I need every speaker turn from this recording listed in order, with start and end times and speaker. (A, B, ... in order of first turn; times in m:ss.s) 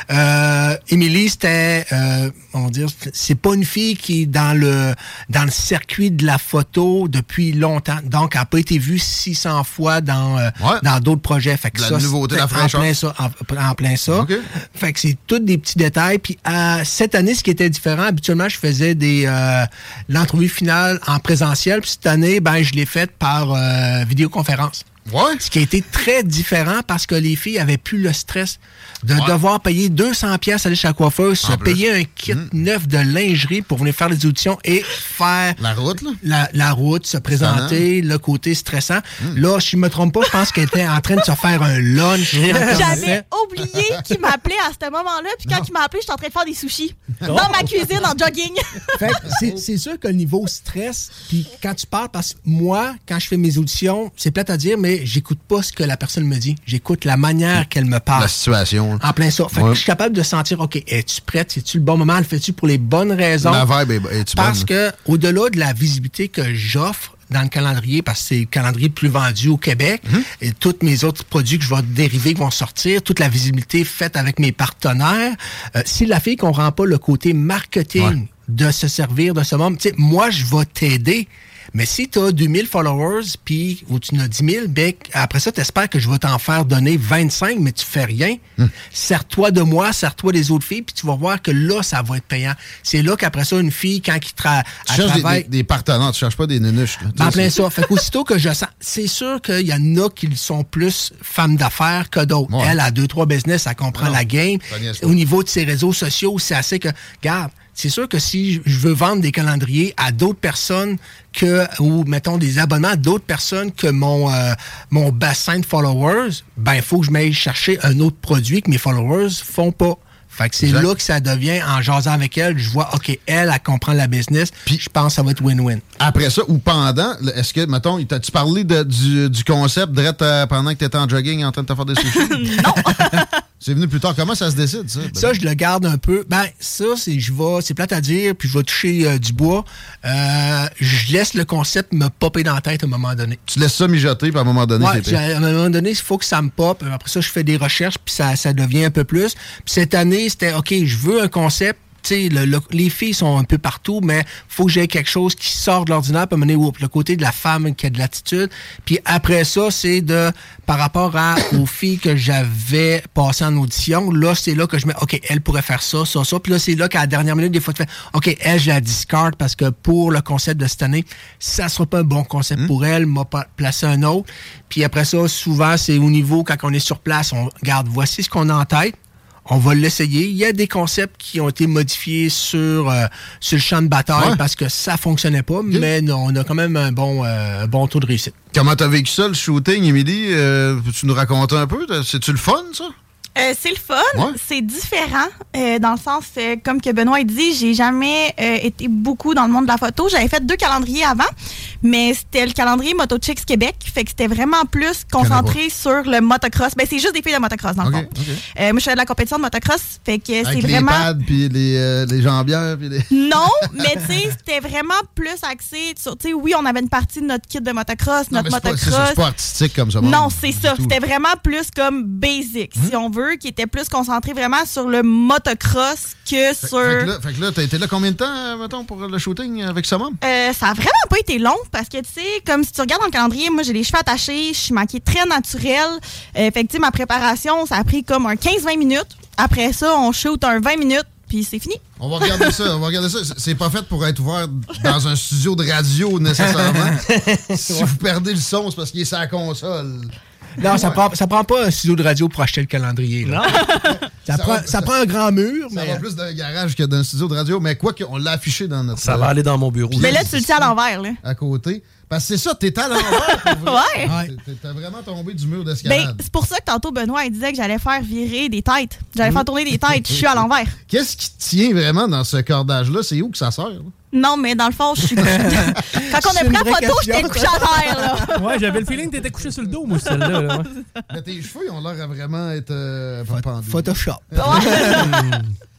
0:00.1-0:24.9 A
0:10.6-0:10.8 B
0:11.7-0:12.9 B
0:14.1-0:14.4 B
0:25.0-0:25.4 B
0:25.4-0:35.6 A
0:31.4-0:32.5 B
0:35.6-0:36.2 B
0:36.2-0:43.2 A
0:37.4-0:37.8 B
0:42.3-0:43.1 C
0:42.7-0:48.9 D
0:42.8-0:44.1 B
0:47.2-0:48.0 B
0:47.2-0:47.6 C
0:49.0-0:58.3 A
0:49.2-0:49.6 B
0:58.2-0:59.8 B
0:59.0-1:03.7 A
1:03.4-1:04.7 B
1:04.3-1:35.5 A
1:34.9-1:37.6 B
1:37.2-2:05.8 A
1:42.5-1:42.8 B
1:43.9-1:45.2 B
2:00.6-2:00.9 B
2:06.0-2:12.4 B
2:12.0-2:13.4 D
2:13.6-2:15.4 B
2:15.1-2:23.4 A
2:23.5-2:25.2 B
2:24.8-2:59.0 A
2:59.5-3:08.4 A
3:08.5-3:12.9 B
3:13.4-3:21.3 D
3:21.8-3:31.1 D
3:25.2-3:25.6 B
3:27.8-3:28.4 B
3:30.4-3:33.4 B
3:33.1-3:39.3 D
3:38.3-3:41.0 B
3:40.0-3:47.1 D
3:46.6-3:50.2 B
3:50.2-4:02.6 D
4:02.0-4:07.0 B
4:06.4-4:07.0 A
4:07.1-4:07.9 C
4:07.5-4:11.0 B
4:10.6-4:13.5 A
4:13.2-4:13.6 C
4:13.6-4:13.9 D
4:13.9-4:14.9 B
4:14.3-4:16.0 A
4:15.7-4:19.3 B
4:19.0-4:20.3 C
4:19.9-4:26.2 B
4:20.0-4:21.2 D
4:23.0-4:24.1 D
4:24.0-4:24.3 A
4:25.8-4:30.8 D
4:29.2-4:33.9 B
4:34.1-4:38.6 D
4:35.2-4:38.2 A
4:38.3-4:40.7 C
4:40.1-4:40.7 D
4:41.1-4:44.7 B
4:43.3-4:45.0 A
4:44.4-4:45.3 D
4:45.0-4:45.5 C